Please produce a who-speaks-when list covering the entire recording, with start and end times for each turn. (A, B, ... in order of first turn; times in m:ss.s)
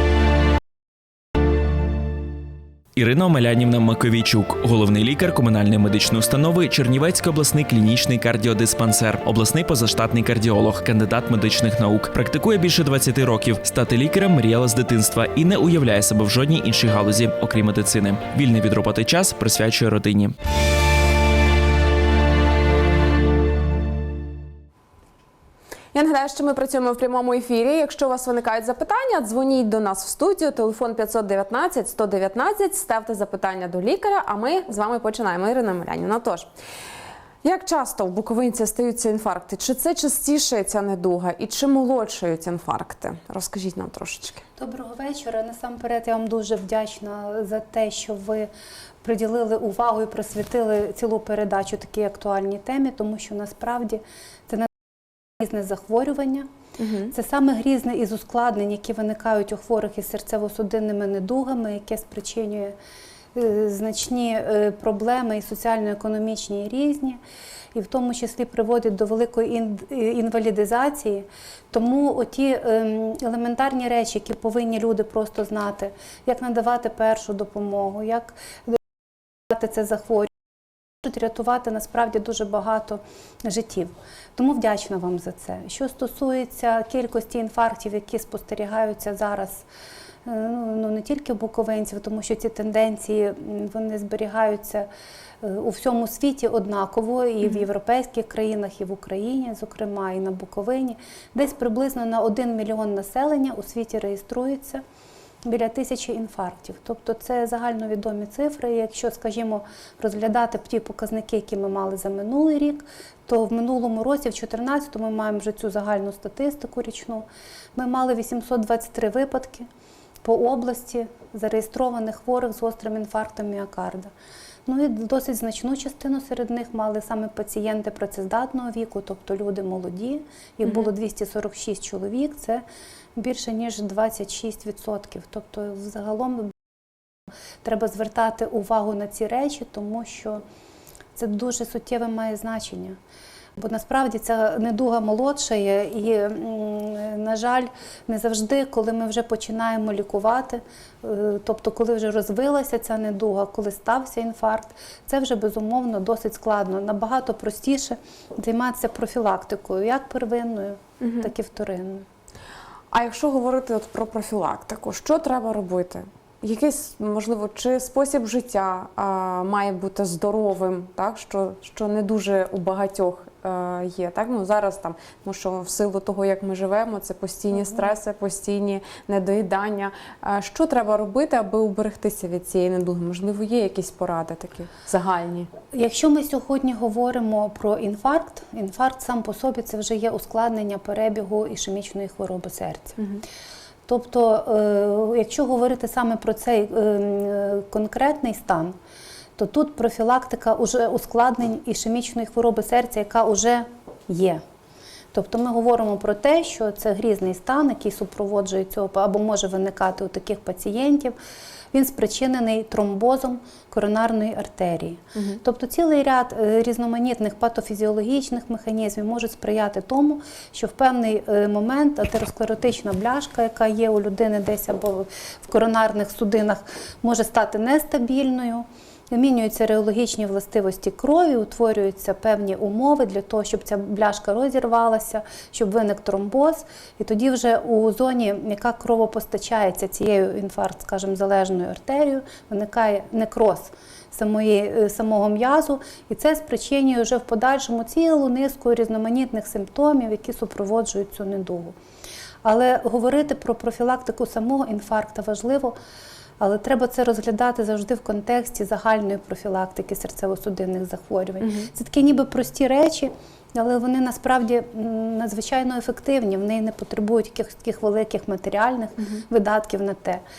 0:03.0-0:20.3 A
0:25.9-0:36.5 B
0:37.4-0:44.4 B
0:44.6-0:48.5 C
0:49.0-0:54.7 C
0:55.4-0:56.5 C
0:56.8-0:57.1 B
0:57.1-1:02.7 C
1:03.3-1:07.2 C
1:07.7-1:18.8 C
1:19.5-1:20.3 C
1:21.0-1:29.6 C
1:30.2-1:34.9 C
1:35.4-1:44.8 C
1:37.4-1:37.7 B
1:45.4-1:57.2 C
1:57.8-1:59.7 C
2:00.2-2:04.1 C
2:04.6-2:12.6 C
2:10.6-2:10.9 B
2:13.2-2:16.5 C
2:17.6-2:20.4 C
2:21.2-2:23.0 C
2:23.6-2:42.0 C
2:41.0-2:41.3 B
2:42.9-3:05.5 B
2:57.5-2:57.9 C
3:05.7-3:13.0 C
3:13.9-3:18.7 C
3:19.4-3:24.4 C
3:25.1-3:31.1 C
3:31.7-4:11.7 C
3:35.1-3:35.4 B
4:12.4-4:15.8 C
4:16.4-4:30.2 C
4:21.4-4:21.7 B
4:29.0-4:29.2 B